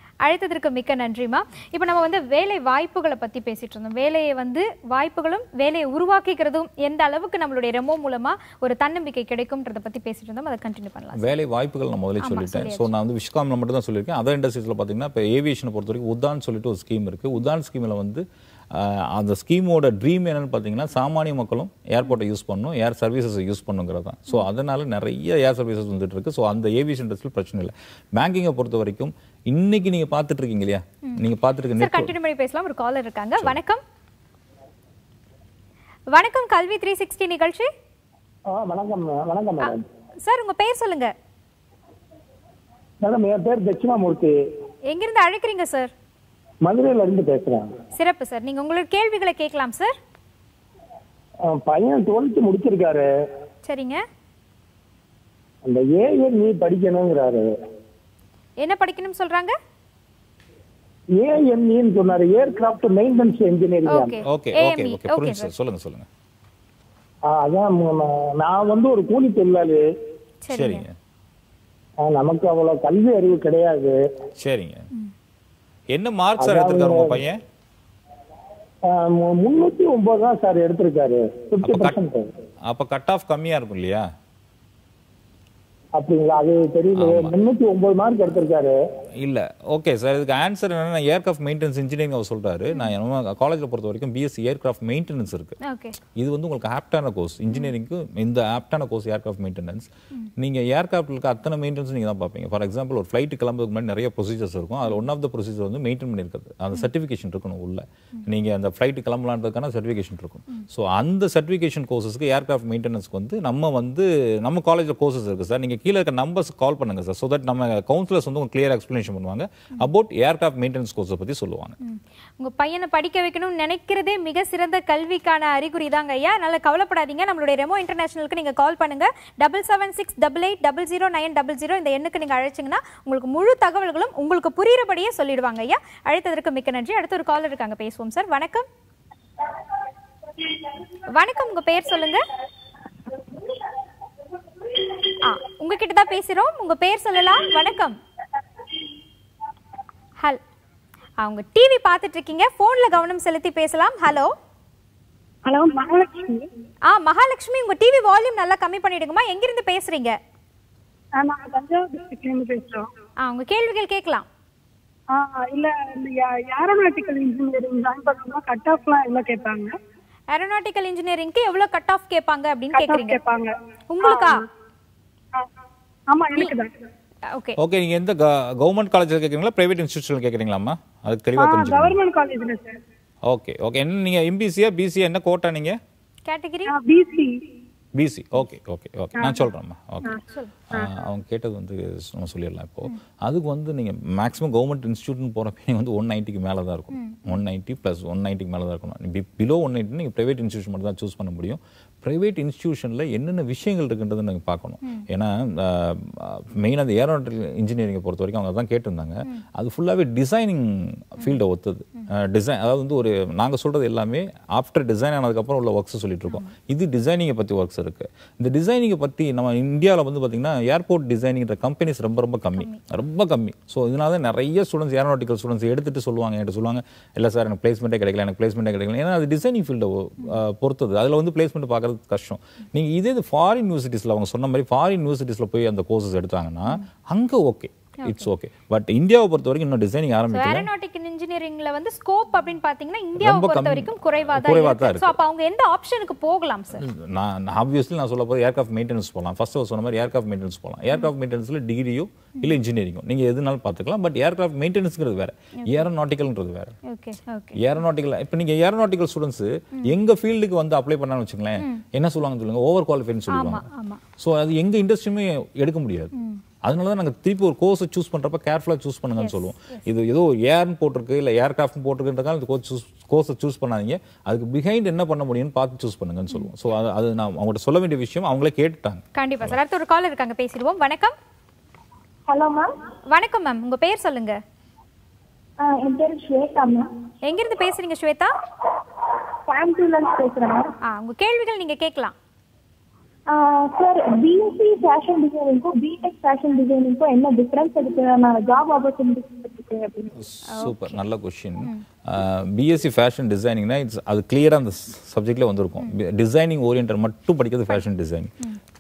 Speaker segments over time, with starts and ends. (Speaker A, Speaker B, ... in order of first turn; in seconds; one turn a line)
Speaker A: 0.2-11.4
Speaker B: 11.2-32.1
Speaker A: 12.2-12.9
Speaker A: 31.8-33.8
Speaker A: 36.1-37.7
Speaker C: 38.5-39.9
Speaker A: 39.6-41.1
Speaker C: 43.0-44.4
Speaker A: 44.9-45.9
Speaker C: 46.7-47.7
Speaker A: 48.0-50.0
Speaker C: 51.5-53.1
Speaker A: 53.6-54.0
Speaker C: 55.7-57.5
Speaker A: 58.6-59.6
Speaker C: 61.2-64.2
Speaker A: 63.9-65.5
Speaker B: 64.2-66.1
Speaker C: 67.3-69.8
Speaker A: 70.5-70.8
Speaker B: 70.5-71.0
Speaker C: 72.0-74.0
Speaker B: 74.4-74.9
Speaker B: 75.9-77.4
Speaker C: 76.4-77.2
Speaker C: 78.9-82.3
Speaker B: 81.6-82.0
Speaker B: 82.7-84.1
Speaker C: 86.0-88.8
Speaker B: 87.0-87.3
Speaker B: 89.2-95.6
Speaker A: 95.6-96.0
Speaker B: 96.1-121.8
Speaker A: 121.8-138.7
Speaker A: 141.0-142.2
Speaker A: 145.1-148.0
Speaker A: 151.2-154.3
Speaker D: 155.5-156.5
Speaker A: 156.9-160.2
Speaker D: 161.2-162.9
Speaker A: 163.2-164.3
Speaker D: 165.1-169.7
Speaker A: 170.3-173.2
Speaker D: 172.7-174.4
Speaker A: 173.9-174.5
Speaker D: 176.1-176.7
Speaker A: 177.3-177.6
Speaker B: 177.6-182.0
Speaker D: 181.4-182.8
Speaker B: 183.2-185.8
Speaker A: 186.3-186.8
Speaker D: 186.7-187.3
Speaker B: 187.9-240.7
Speaker A: 190.1-190.5
Speaker A: 196.9-197.3
Speaker A: 222.6-222.8
Speaker A: 238.0-238.3
Speaker A: 240.3-246.9
Speaker B: 243.2-245.2
Speaker B: 246.8-256.8
Speaker A: 255.6-255.9
Speaker A: 256.9-257.6
Speaker B: 257.6-263.7
Speaker A: 261.6-261.8
Speaker A: 263.3-264.0
Speaker B: 264.2-266.1
Speaker A: 266.1-266.4
Speaker B: 266.6-279.6
Speaker A: 269.2-269.8
Speaker A: 279.2-281.1
Speaker E: 282.3-282.7
Speaker A: 283.1-284.4
Speaker E: 285.6-286.9
Speaker A: 287.2-288.3
Speaker E: 289.5-290.7
Speaker A: 290.8-292.1
Speaker E: 293.3-300.1
Speaker B: 300.2-308.3
Speaker A: 300.5-301.0